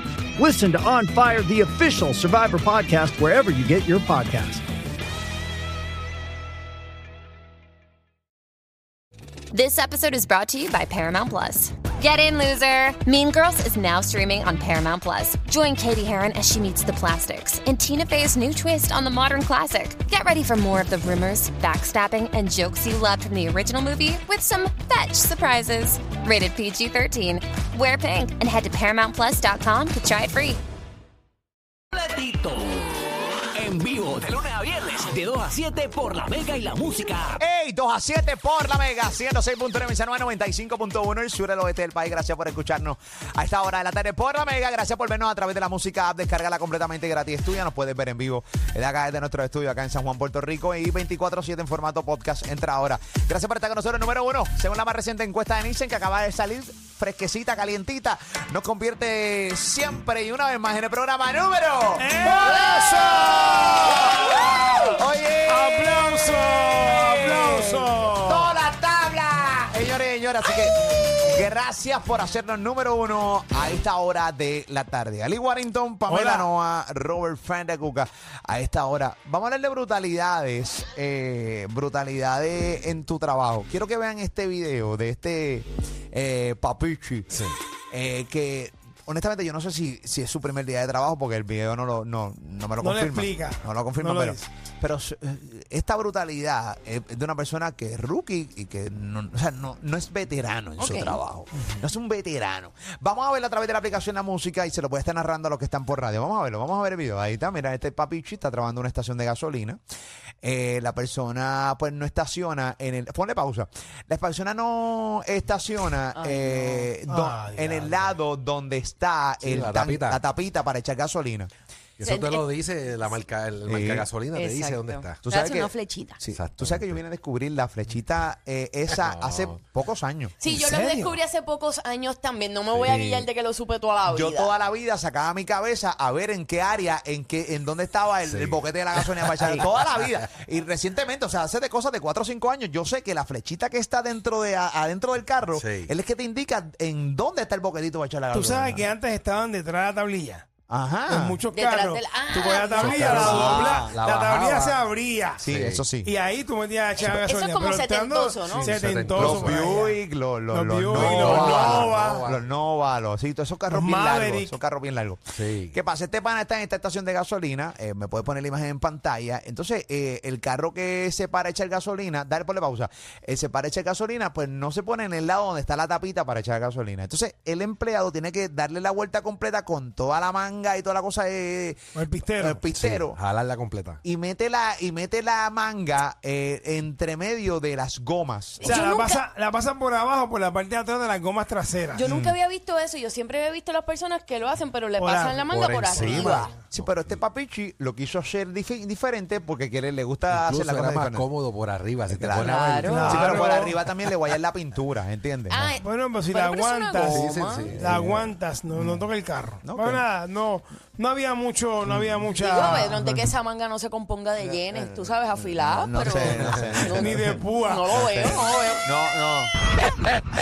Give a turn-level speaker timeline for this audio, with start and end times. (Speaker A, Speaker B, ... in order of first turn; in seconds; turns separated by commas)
Speaker A: 0.4-4.6, Speaker B: 9.5-30.6, Speaker C: 31.9-32.8, Speaker C: 33.5-37.3, Speaker D: 37.4-87.4, Speaker E: 62.0-68.6, Speaker E: 76.1-76.5, Speaker F: 87.3-87.6, Speaker D: 87.9-109.8, Speaker E: 92.8-94.5, Speaker G: 100.8-101.2, Speaker E: 101.5-101.8, Speaker D: 110.4-121.5, Speaker G: 116.1-116.9, Speaker E: 117.1-118.2, Speaker F: 119.4-120.2, Speaker F: 122.0-125.2, Speaker G: 122.0-122.5, Speaker D: 123.7-124.1, Speaker G: 124.3-126.2, Speaker D: 125.2-131.1, Speaker F: 126.3-127.0, Speaker F: 128.9-129.6, Speaker G: 130.4-134.5, Speaker F: 132.7-133.3, Speaker D: 134.1-148.9, Speaker F: 138.2-139.9, Speaker F: 145.5-145.9, Speaker E: 148.3-150.4, Speaker D: 150.7-151.4, Speaker E: 151.1-160.0, Speaker G: 151.5-153.8, Speaker F: 152.8-154.8, Speaker D: 153.0-153.9, Speaker D: 155.4-156.1, Speaker F: 155.4-155.9, Speaker G: 157.0-158.8, Speaker F: 158.5-159.8, Speaker D: 159.1-165.2, Speaker E: 160.5-162.3, Speaker F: 160.9-162.5, Speaker E: 163.7-164.6, Speaker F: 165.3-165.8, Speaker D: 165.7-183.2, Speaker E: 181.9-182.6, Speaker F: 182.7-184.0, Speaker D: 184.0-188.8, Speaker E: 188.6-192.1, Speaker G: 188.6-189.2, Speaker G: 191.9-196.5, Speaker D: 192.1-192.3, Speaker E: 195.0-196.6, Speaker F: 195.5-197.2, Speaker D: 196.1-201.3, Speaker F: 200.3-203.4, Speaker D: 202.1-205.7, Speaker G: 202.4-203.5, Speaker E: 202.8-203.8, Speaker G: 205.5-207.9, Speaker E: 205.8-213.1, Speaker F: 207.1-208.3, Speaker D: 208.7-209.1, Speaker D: 209.6-210.0, Speaker D: 211.8-212.3, Speaker G: 212.3-218.8, Speaker D: 212.8-213.2, Speaker D: 214.5-219.5, Speaker E: 216.8-217.9